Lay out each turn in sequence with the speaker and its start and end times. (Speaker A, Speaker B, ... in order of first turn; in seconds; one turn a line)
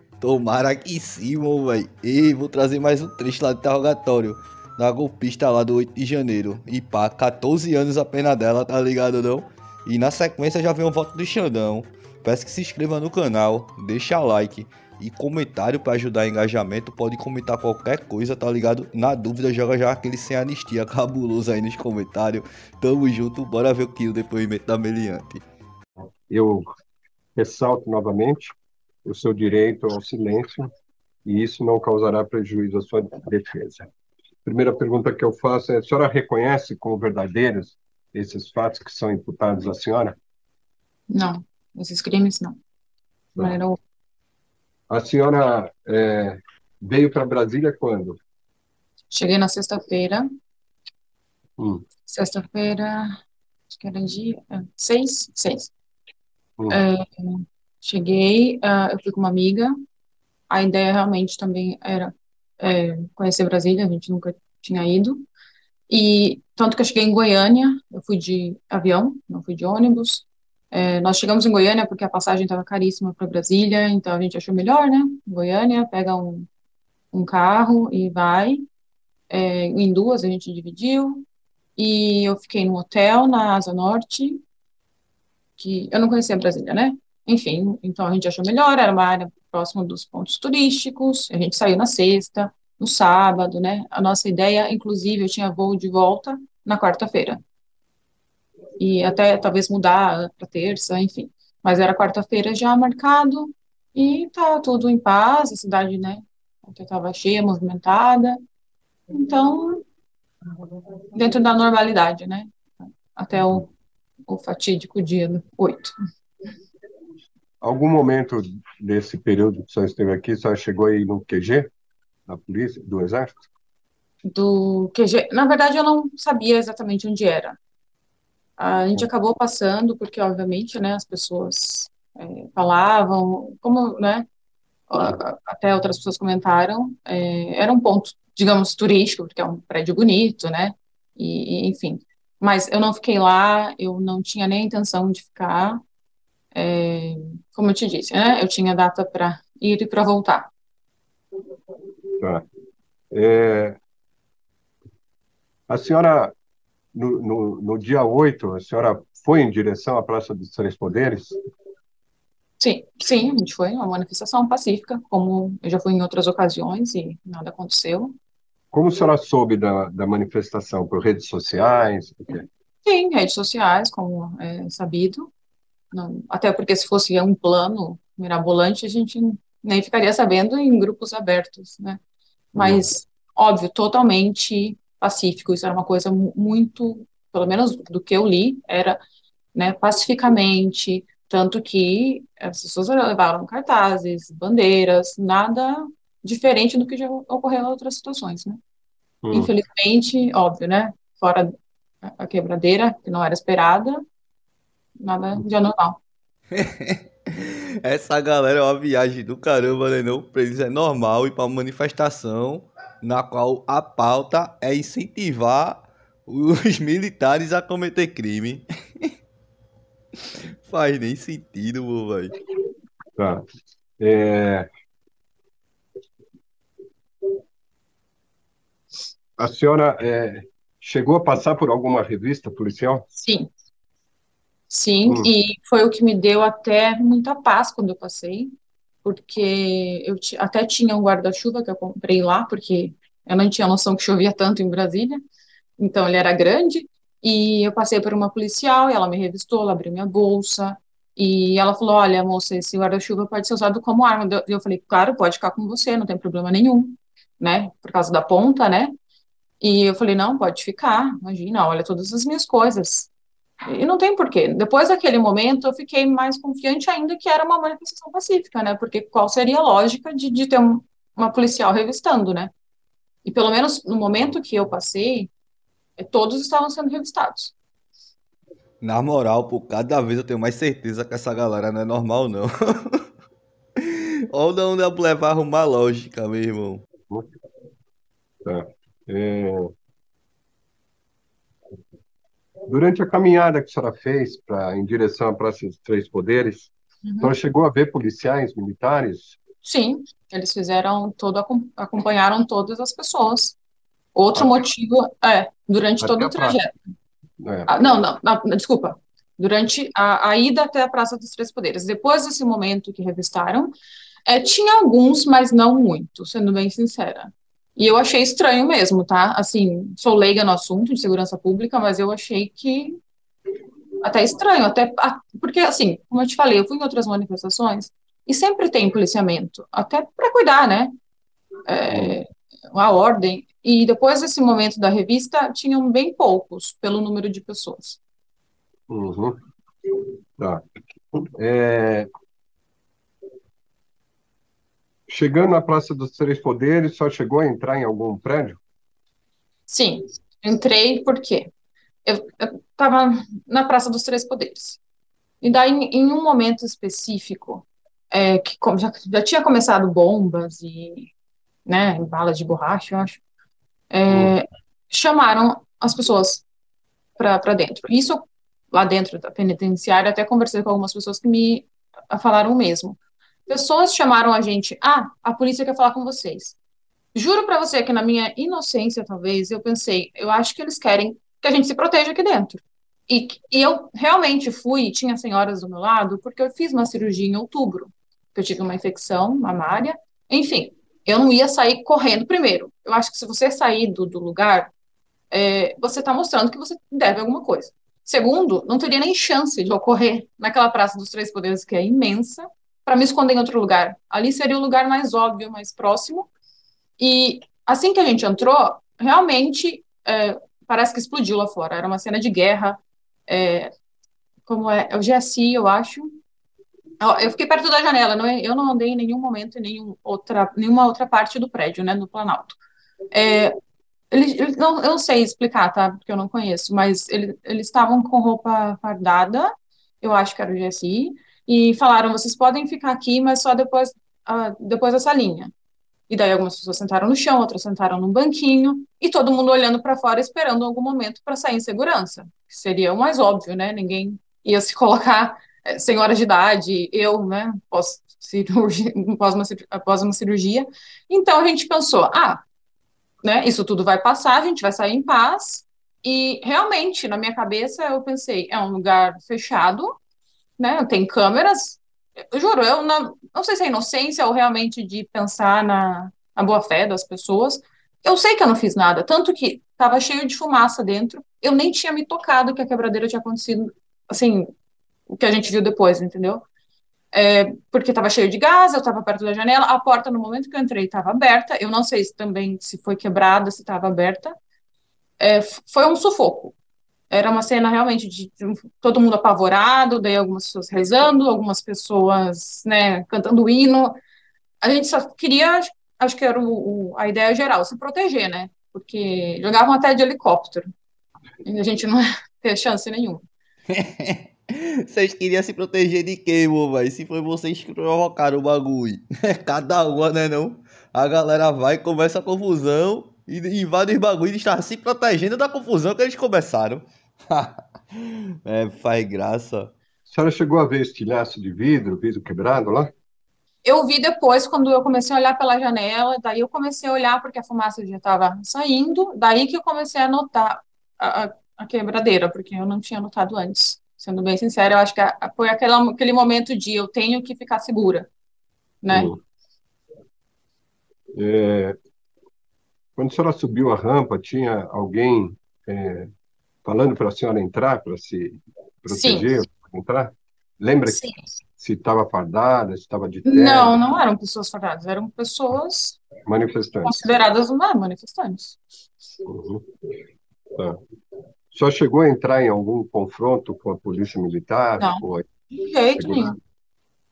Speaker A: 0.2-25.4
Speaker B: 26.3-26.7
Speaker B: 27.4-28.5
Speaker B: 29.0-30.7
Speaker B: 31.2-33.9
Speaker B: 34.4-40.2
Speaker C: 41.1-42.6
Speaker C: 43.4-43.8
Speaker B: 44.9-48.2
Speaker C: 49.1-50.2
Speaker B: 51.6-51.8
Speaker C: 52.0-55.7
Speaker C: 56.7-59.7
Speaker C: 60.5-65.2
Speaker C: 65.9-76.5
Speaker C: 77.1-78.6
Speaker C: 79.3-81.2
Speaker C: 81.8-84.4
Speaker C: 85.6-97.4
Speaker C: 98.8-108.4
Speaker C: 109.1-109.8
Speaker C: 111.1-113.7
Speaker C: 114.3-115.9
Speaker B: 117.6-121.7
Speaker B: 122.3-123.5
Speaker C: 124.2-127.6
Speaker C: 128.6-134.2
Speaker C: 134.9-145.8
Speaker C: 146.5-150.5
Speaker B: 153.1-153.8
Speaker B: 155.7-156.3
Speaker B: 156.9-161.4
Speaker C: 162.6-168.1
Speaker B: 168.7-172.4
Speaker C: 172.8-175.3
Speaker C: 175.9-182.0
Speaker C: 182.5-189.0
Speaker B: 182.6-182.8
Speaker C: 189.5-198.6
Speaker B: 199.2-199.5
Speaker C: 199.3-204.0
Speaker C: 205.0-206.0
Speaker A: 206.5-219.1
Speaker A: 220.7-222.3
Speaker B: 223.2-223.4
Speaker B: 224.0-224.7
Speaker B: 229.4-233.0
Speaker C: 233.2-233.5
Speaker C: 234.7-238.5
Speaker C: 239.0-245.2
Speaker C: 245.8-258.9
Speaker C: 259.6-263.1
Speaker C: 263.6-272.5
Speaker C: 273.2-275.3
Speaker C: 276.0-277.5
Speaker A: 278.8-283.0
Speaker A: 283.8-286.8
Speaker B: 288.4-289.7
Speaker B: 292.7-299.4
Speaker C: 297.0-297.3
Speaker C: 299.6-303.6
Speaker C: 304.1-306.7
Speaker B: 306.0-306.6
Speaker B: 307.4-307.7
Speaker C: 307.7-313.7
Speaker C: 314.2-323.0
Speaker C: 324.0-330.9
Speaker C: 331.7-338.0
Speaker B: 331.9-332.1
Speaker B: 338.9-339.4
Speaker B: 340.4-340.6
Speaker B: 341.2-342.1
Speaker B: 345.1-348.6
Speaker C: 349.7-351.5
Speaker C: 352.0-354.8
Speaker C: 355.4-361.1
Speaker C: 361.6-363.2
Speaker C: 363.9-366.4
Speaker B: 364.1-364.3
Speaker C: 367.2-376.6
Speaker C: 377.1-394.7
Speaker C: 395.3-406.3
Speaker C: 407.0-413.7
Speaker C: 414.4-416.2
Speaker C: 417.0-422.6
Speaker C: 423.1-423.5
Speaker C: 424.1-435.5
Speaker C: 436.1-452.4
Speaker C: 453.2-459.9
Speaker C: 460.6-474.5
Speaker C: 475.1-476.4
Speaker C: 477.1-484.3
Speaker C: 485.2-486.5
Speaker C: 487.1-494.0
Speaker C: 494.6-500.7
Speaker C: 501.4-503.2
Speaker A: 503.7-519.7
Speaker B: 520.1-522.9
Speaker C: 523.6-538.1
Speaker C: 538.8-539.1
Speaker B: 538.9-539.2
Speaker B: 541.1-541.8
Speaker B: 543.0-546.1
Speaker B: 546.6-551.0
Speaker C: 548.9-549.3
Speaker C: 550.9-551.2
Speaker B: 551.6-553.8
Speaker C: 553.2-556.0
Speaker B: 556.2-557.0
Speaker C: 556.8-558.6
Speaker B: 559.2-559.6
Speaker B: 560.5-560.8
Speaker B: 561.5-565.3
Speaker C: 565.5-566.4
Speaker B: 566.0-566.4